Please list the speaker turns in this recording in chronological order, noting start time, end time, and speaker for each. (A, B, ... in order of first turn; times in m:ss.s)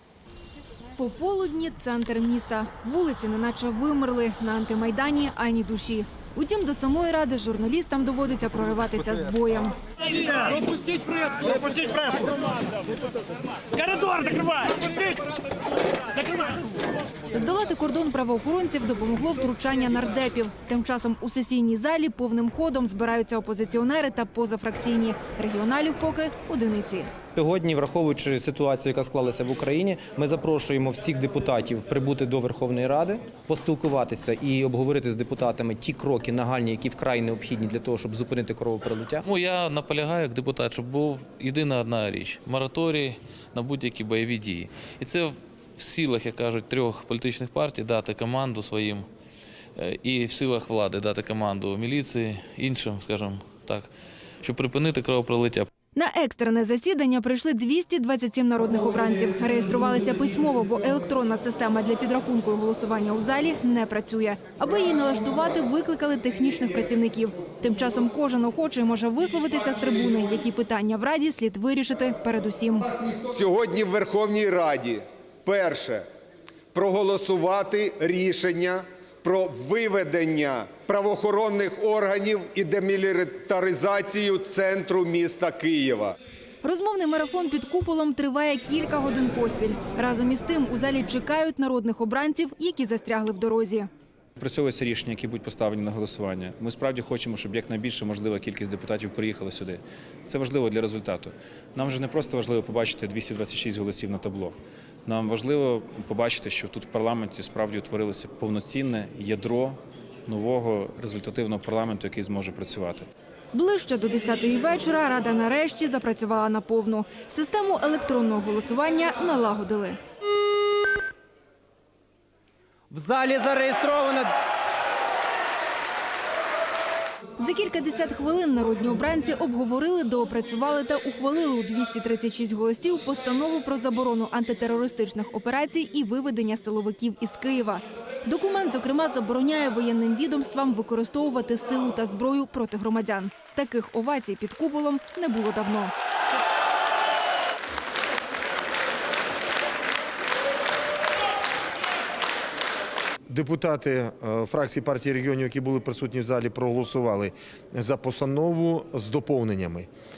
0:01.0-0:09.8 A
0:11.4-0:12.2 B
0:13.9-0:14.9 B
0:17.3-0:27.2 A
0:27.4-0:39.2 C
0:39.2-0:49.1 D
0:49.8-0:53.9 D
0:54.4-0:55.7 D
0:56.0-1:12.9 A
1:13.2-1:16.1 E
1:16.7-1:26.2 E
1:26.6-1:33.9 A
1:34.4-1:53.1 F
1:53.5-2:00.0 A
2:07.4-2:25.9 A
2:33.3-2:39.9 G